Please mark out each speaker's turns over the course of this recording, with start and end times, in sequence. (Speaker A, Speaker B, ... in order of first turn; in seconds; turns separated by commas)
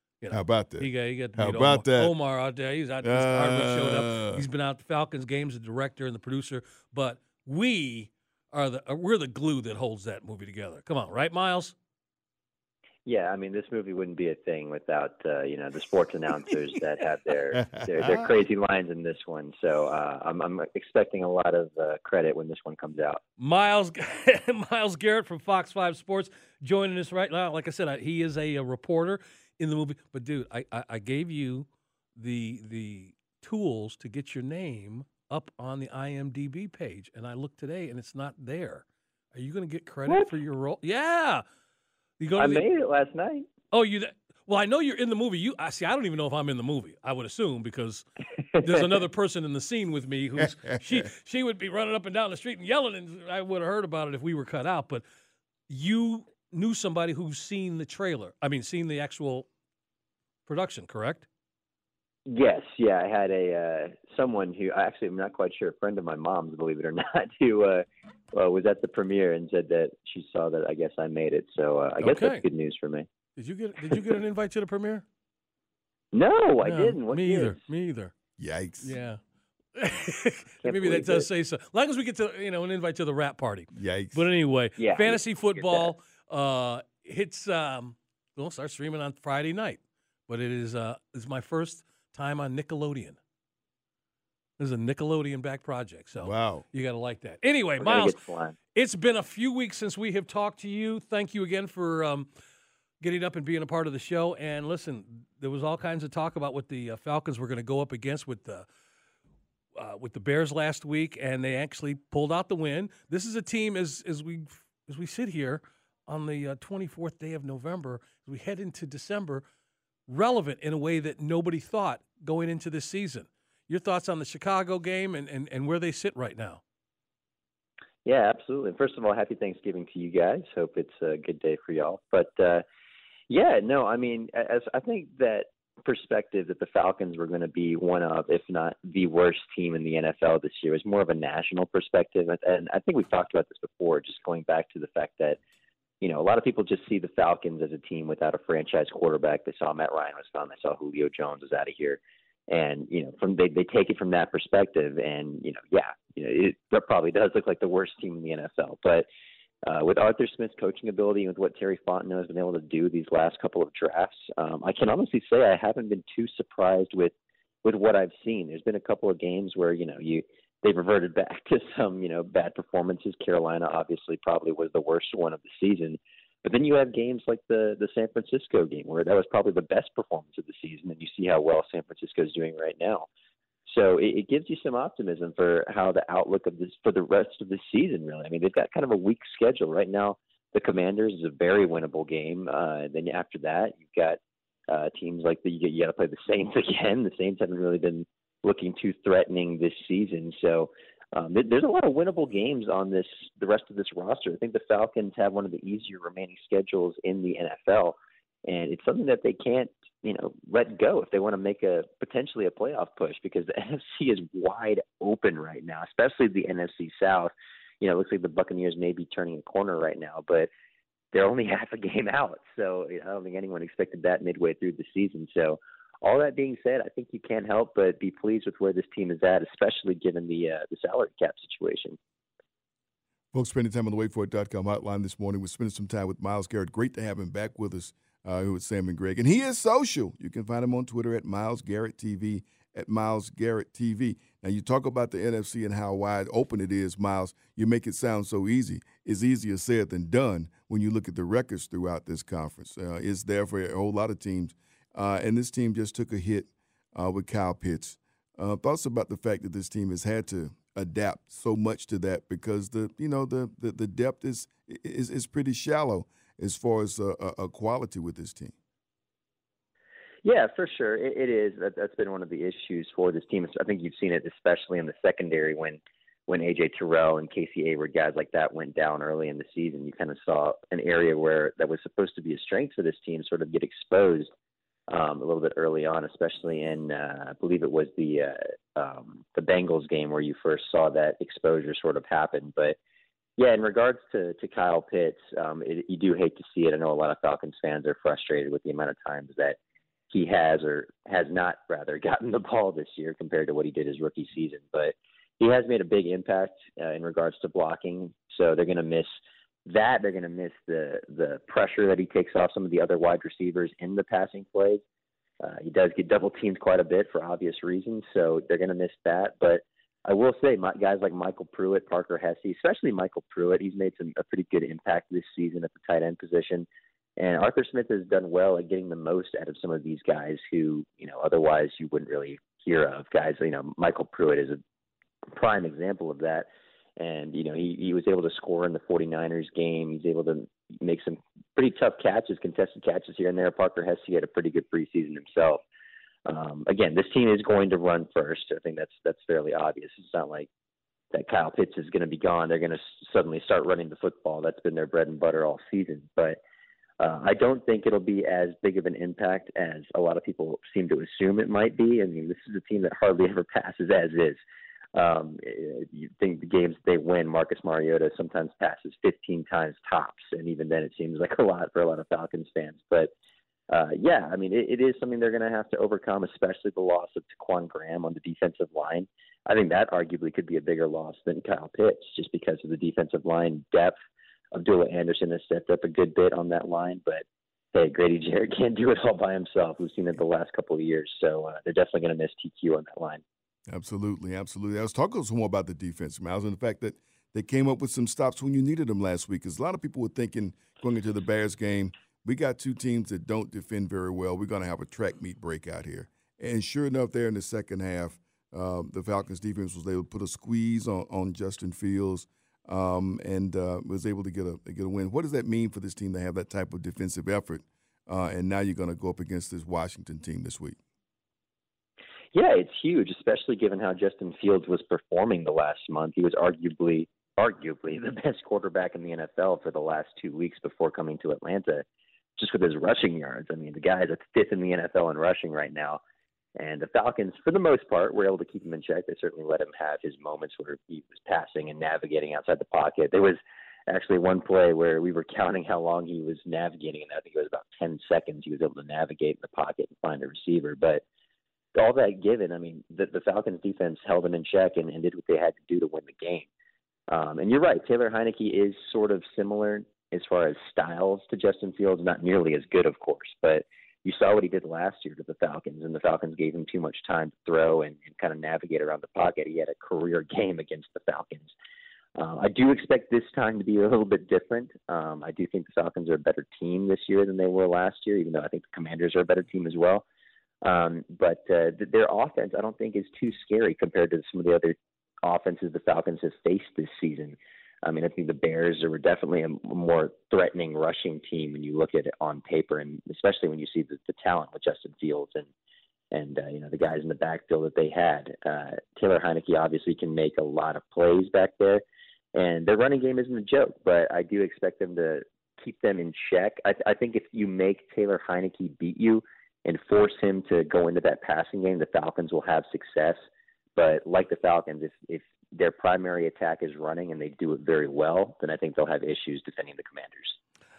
Speaker A: 0.2-11.7, Speaker B: 0.3-2.1, Speaker B: 3.0-4.4, Speaker C: 13.1-23.2, Speaker B: 17.8-18.1, Speaker A: 23.4-41.4, Speaker A: 42.2-42.6, Speaker C: 42.4-43.5, Speaker A: 43.7-48.0, Speaker A: 48.6-55.0, Speaker A: 55.7-59.5, Speaker A: 60.5-61.3, Speaker C: 62.3-73.1, Speaker A: 72.0-72.4, Speaker A: 73.3-75.0, Speaker C: 76.1-77.6, Speaker A: 76.6-78.1, Speaker B: 78.4-79.0, Speaker A: 78.8-79.2, Speaker A: 79.8-93.2, Speaker C: 80.6-81.3, Speaker B: 83.7-84.3, Speaker C: 84.8-85.9, Speaker A: 94.6-98.1, Speaker B: 96.2-96.7, Speaker C: 97.8-98.5, Speaker A: 98.7-102.3, Speaker A: 103.0-108.7, Speaker A: 109.8-119.4, Speaker A: 120.1-126.6, Speaker C: 128.0-132.6, Speaker C: 133.3-145.4, Speaker C: 146.0-159.1, Speaker C: 159.7-167.1, Speaker C: 167.6-183.1, Speaker C: 183.7-207.9, Speaker C: 208.5-220.5, Speaker C: 221.1-232.0, Speaker B: 233.3-268.5, Speaker C: 270.2-284.3, Speaker C: 284.9-292.8, Speaker C: 293.4-299.6, Speaker C: 300.1-309.1, Speaker C: 309.7-314.8, Speaker C: 315.4-326.6, Speaker C: 327.2-334.6, Speaker C: 335.3-345.6, Speaker C: 346.2-350.5, Speaker C: 351.1-356.4, Speaker C: 357.0-364.4, Speaker C: 364.9-373.1, Speaker C: 373.7-383.9, Speaker C: 384.5-393.2, Speaker B: 393.7-420.8, Speaker C: 422.3-431.8, Speaker C: 432.4-436.0, Speaker C: 436.6-451.0, Speaker C: 451.7-456.5, Speaker C: 457.1-471.5, Speaker C: 472.2-480.0, Speaker C: 480.6-495.5, Speaker C: 496.1-501.8, Speaker C: 502.3-513.2, Speaker C: 513.8-520.4